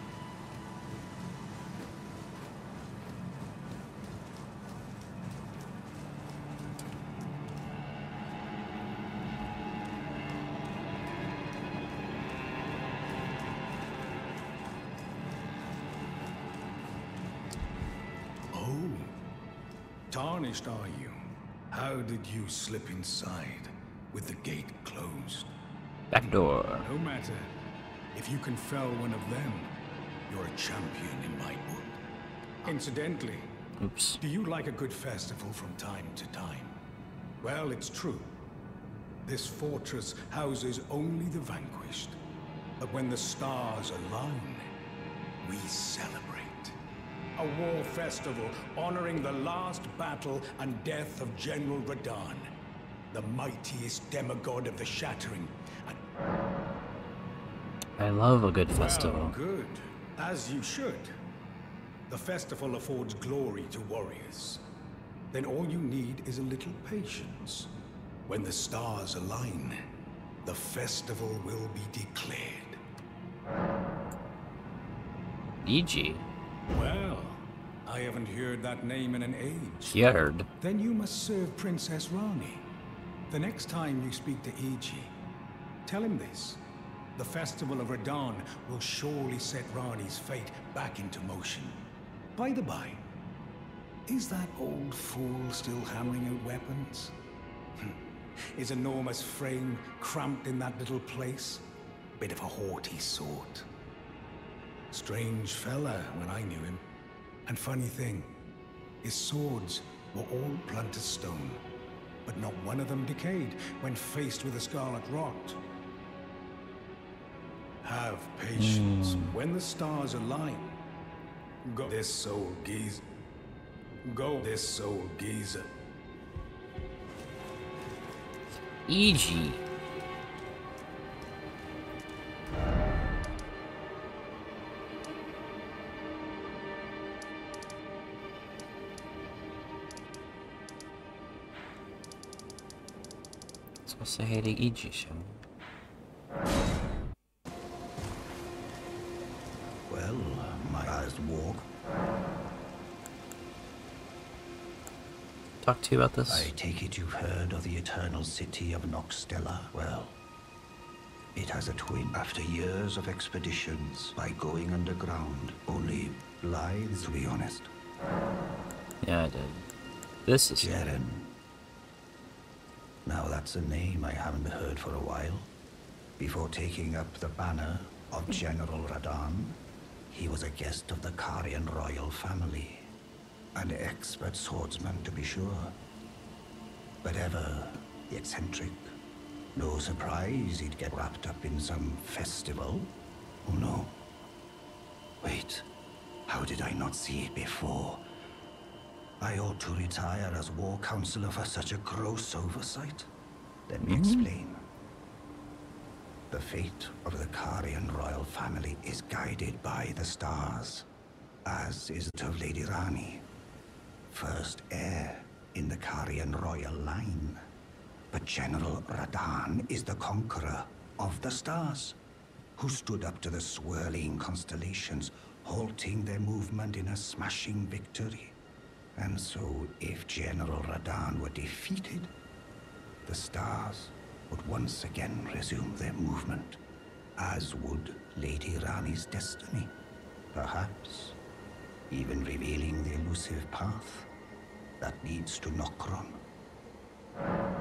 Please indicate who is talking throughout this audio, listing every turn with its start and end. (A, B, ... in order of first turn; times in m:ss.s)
0:18.5-0:19.1 A
0:20.1-0:21.2 A
0:21.7-0:25.5 A
0:26.1-0:26.9 B
0:26.7-0:27.5 A
0:28.1-0:29.7 A
0:30.3-0:32.0 A
0:32.6-0:33.5 A
0:33.8-0:34.2 B
0:34.2-0:36.8 A
0:37.4-0:38.3 A
0:39.2-0:42.2 A
0:42.8-0:44.7 A
0:45.4-0:46.8 A
0:47.4-0:52.5 A
0:53.1-0:56.0 A
0:58.0-0:59.4 B
0:58.7-1:01.2 A
1:02.1-1:04.6 A
1:05.3-1:07.7 A
1:08.3-1:09.8 A
1:10.4-1:12.8 A
1:15.6-1:16.3 B
1:16.7-1:20.0 A
1:19.9-1:20.5 B
1:20.6-1:22.7 A
1:23.3-1:25.1 A
1:25.8-1:26.6 A
1:27.2-1:31.8 A
1:32.4-1:33.0 A
1:34.1-1:37.2 A
1:38.6-1:41.7 A
1:42.2-1:43.7 A
1:44.9-1:46.8 A
1:47.5-1:48.4 A
1:49.0-1:51.6 A
1:52.3-1:55.6 A
1:57.8-2:00.8 A
1:58.5-1:59.4 B
2:01.6-2:03.0 A
2:04.0-2:05.7 A
2:08.9-2:09.6 B
2:23.9-2:25.4 B
2:29.9-2:31.7 C
2:35.6-2:36.5 B
2:36.3-2:40.2 C
2:41.4-2:47.7 C
2:49.0-2:49.6 B
2:50.3-2:50.8 B
2:50.6-2:51.4 C
2:53.0-2:55.5 C
2:56.2-2:59.6 C
3:00.1-3:02.9 C
3:03.6-3:05.8 C
3:07.0-3:08.9 C
3:09.6-3:12.9 C
3:13.4-3:14.0 C
3:15.2-3:15.7 C
3:16.3-3:18.0 C
3:19.2-3:23.1 C
3:23.7-3:24.6 C
3:23.8-3:24.3 B
3:26.3-3:30.9 C
3:31.4-3:33.3 C
3:34.1-3:37.4 C
3:38.1-3:42.0 C
3:42.6-3:48.4 C
3:49.0-3:52.1 C
3:53.1-3:56.6 C
3:57.2-3:59.8 C
4:00.3-4:01.2 C
4:01.9-4:04.1 C
4:04.8-4:06.2 C